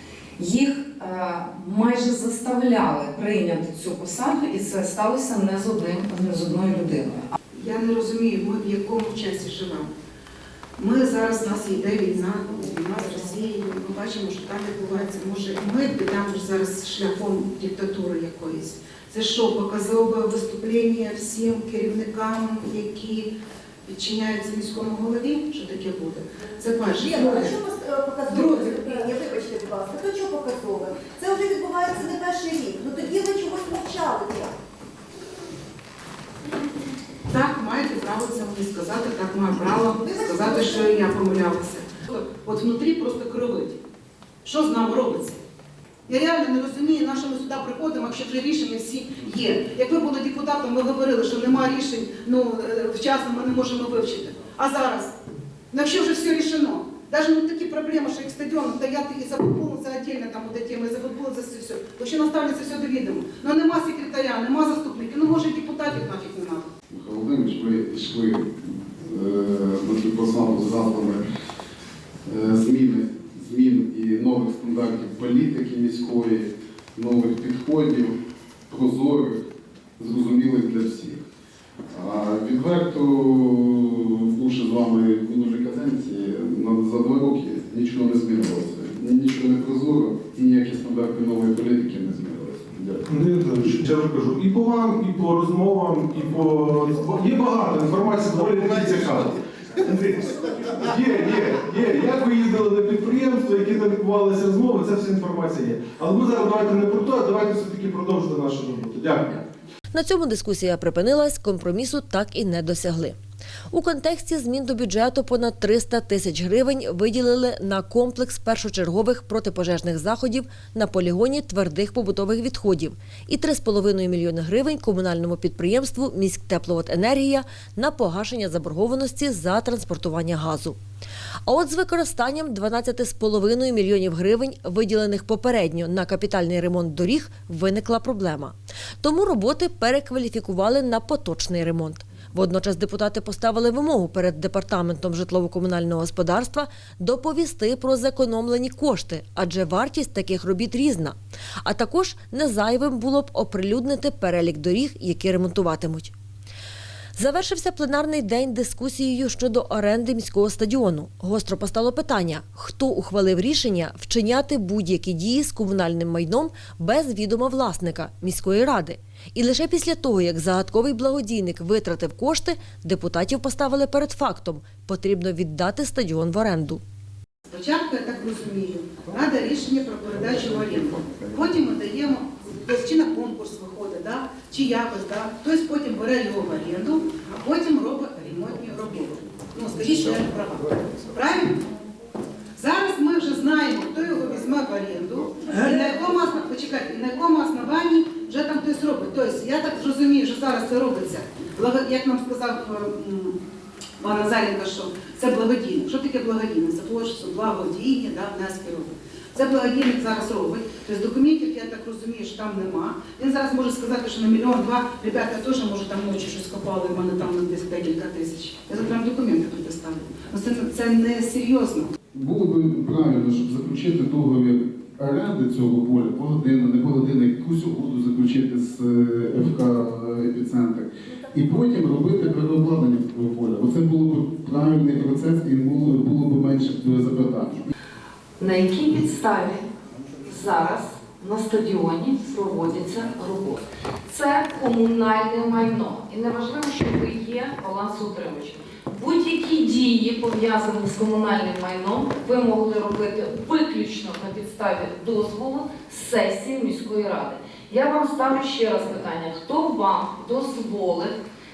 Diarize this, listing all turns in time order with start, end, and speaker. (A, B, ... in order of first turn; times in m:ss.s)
0:00.4-0:07.3 A
0:07.5-0:09.9 B
0:10.8-0:23.3 B
0:23.8-0:27.6 B
0:27.0-0:34.5 C
0:28.3-0:29.0 B
0:37.3-0:43.8 B
0:44.4-0:45.4 B
0:46.1-0:55.1 B
0:55.7-1:06.7 B
1:06.9-1:11.2 D
1:12.2-1:18.1 D
1:18.7-1:19.4 D
1:20.0-1:21.2 D
1:21.9-1:33.0 D
1:33.1-1:49.4 E
1:49.9-1:53.2 F
1:53.7-2:10.8 F
2:11.5-2:36.1 F
2:37.2-2:56.8 F
2:57.5-3:11.6 B
3:12.6-3:23.4 B
3:24.0-3:41.9 B
3:42.1-3:57.7 D
3:58.4-3:59.7 A
4:00.2-4:21.1 A